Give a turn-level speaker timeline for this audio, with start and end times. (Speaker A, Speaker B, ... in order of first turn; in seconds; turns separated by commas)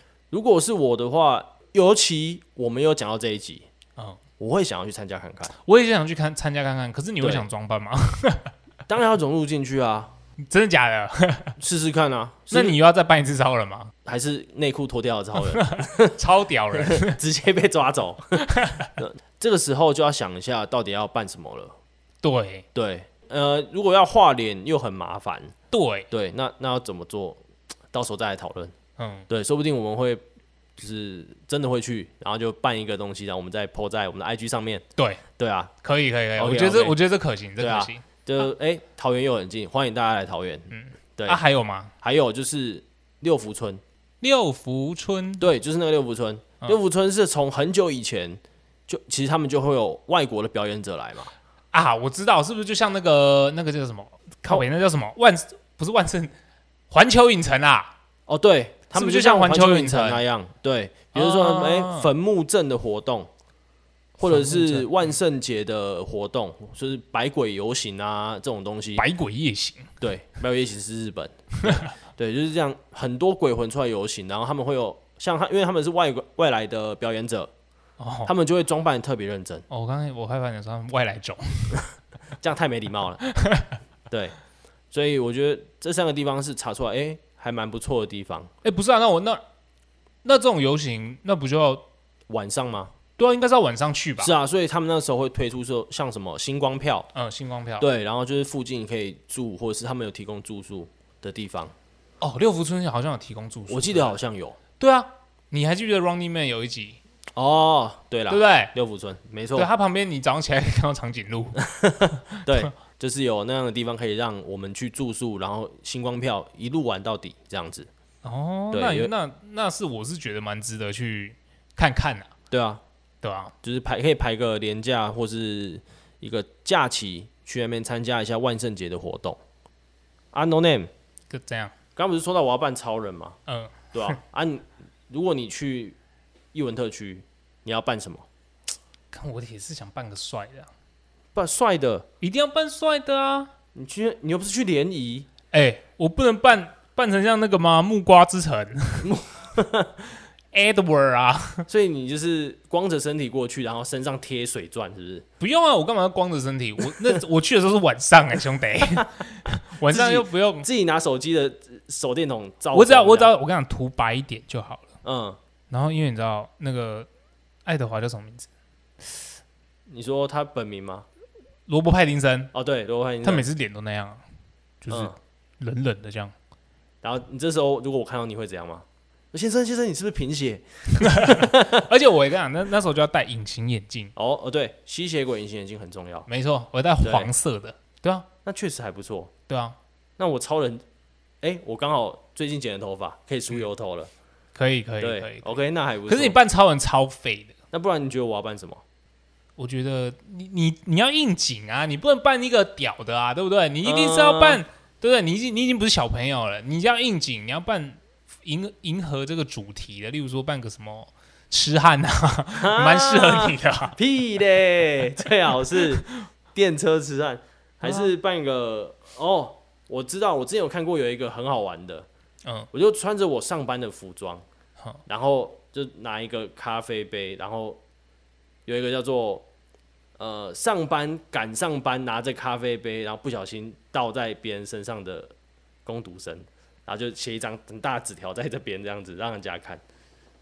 Speaker A: 0.3-3.7, Speaker A: 4.4-5.5, Speaker B: 5.5-8.5, Speaker A: 8.9-10.1, Speaker B: 10.4-11.5, Speaker A: 11.6-12.7, Speaker B: 12.5-13.9, Speaker A: 14.0-16.2, Speaker B: 15.5-17.2, Speaker A: 16.7-21.7, Speaker B: 18.4-18.9, Speaker B: 22.2-22.6, Speaker A: 22.7-25.5, Speaker B: 25.7-26.1, Speaker A: 26.1-27.4, Speaker A: 27.9-28.7, Speaker B: 29.0-29.3, Speaker A: 29.3-30.2, Speaker A: 30.8-34.8, Speaker B: 35.0-35.2, Speaker A: 35.4-35.7, Speaker B: 35.8-38.0, Speaker A: 36.4-37.0, Speaker A: 37.6-41.4, Speaker B: 40.7-41.9, Speaker A: 42.0-43.8, Speaker B: 44.2-45.4, Speaker A: 45.4-51.3, Speaker B: 51.7-56.3, Speaker B: 56.9-57.9, Speaker A: 58.3-63.3, Speaker B: 58.9-60.2, Speaker B: 61.1-62.1, Speaker A: 64.2-69.0, Speaker B: 64.3-65.1, Speaker B: 69.0-69.9, Speaker A: 70.0-77.5, Speaker B: 78.0-78.3, Speaker A: 78.2-79.7, Speaker B: 79.7-81.8, Speaker A: 82.4-83.2, Speaker B: 83.3-83.7, Speaker A: 84.9-88.5, Speaker B: 88.6-89.4, Speaker B: 90.2-91.9, Speaker A: 92.3-92.9, Speaker B: 93.2-94.3, Speaker A: 94.2-97.1, Speaker B: 97.1-97.9, Speaker A: 97.8-101.7, Speaker B: 102.2-104.2, Speaker A: 103.7-104.6, Speaker B: 104.8-107.0, Speaker A: 107.3-109.7, Speaker B: 108.3-108.7, Speaker B: 109.5-111.6, Speaker A: 111.6-117.9, Speaker B: 118.2-122.3, Speaker A: 118.7-119.1, Speaker A: 122.5-122.8, Speaker B: 123.2-123.5, Speaker A: 123.6-129.4, Speaker A: 130.3-130.9, Speaker B: 131.3-131.7, Speaker A: 131.9-133.4, Speaker B: 133.5-134.2, Speaker A: 133.9-135.9, Speaker A: 136.5-138.2, Speaker B: 139.1-140.7, Speaker A: 141.3-142.1, Speaker B: 142.2-143.5, Speaker A: 143.7-145.3, Speaker B: 145.5-149.1, Speaker A: 149.0-150.0, Speaker B: 150.5-151.7, Speaker A: 151.7-155.2, Speaker B: 155.4-160.7, Speaker A: 159.8-163.3, Speaker B: 162.7-164.9, Speaker A: 165.0-165.4, Speaker B: 165.7-167.1, Speaker B: 167.6-168.5, Speaker A: 169.9-171.1, Speaker B: 171.7-172.5, Speaker A: 172.5-173.5, Speaker B: 173.2-174.2, Speaker B: 174.8-176.3, Speaker A: 174.9-175.2, Speaker A: 177.0-181.8, Speaker B: 181.0-184.1, Speaker A: 184.2-186.3, Speaker B: 186.3-188.3, Speaker A: 187.0-187.3, Speaker A: 188.4-189.3, Speaker B: 189.5-189.8, Speaker A: 190.2-190.8, Speaker A: 191.4-194.1, Speaker B: 194.5-195.4, Speaker A: 195.0-196.4, Speaker B: 196.1-197.5, Speaker A: 197.7-198.8, Speaker B: 199.6-213.9, Speaker A: 203.8-204.6, Speaker A: 212.6-222.1, Speaker B: 215.8-216.1, Speaker B: 217.8-218.1, Speaker A: 222.7-224.4, Speaker A: 225.1-227.8, Speaker A: 228.7-229.4, Speaker A: 230.2-235.3, Speaker A: 235.8-239.8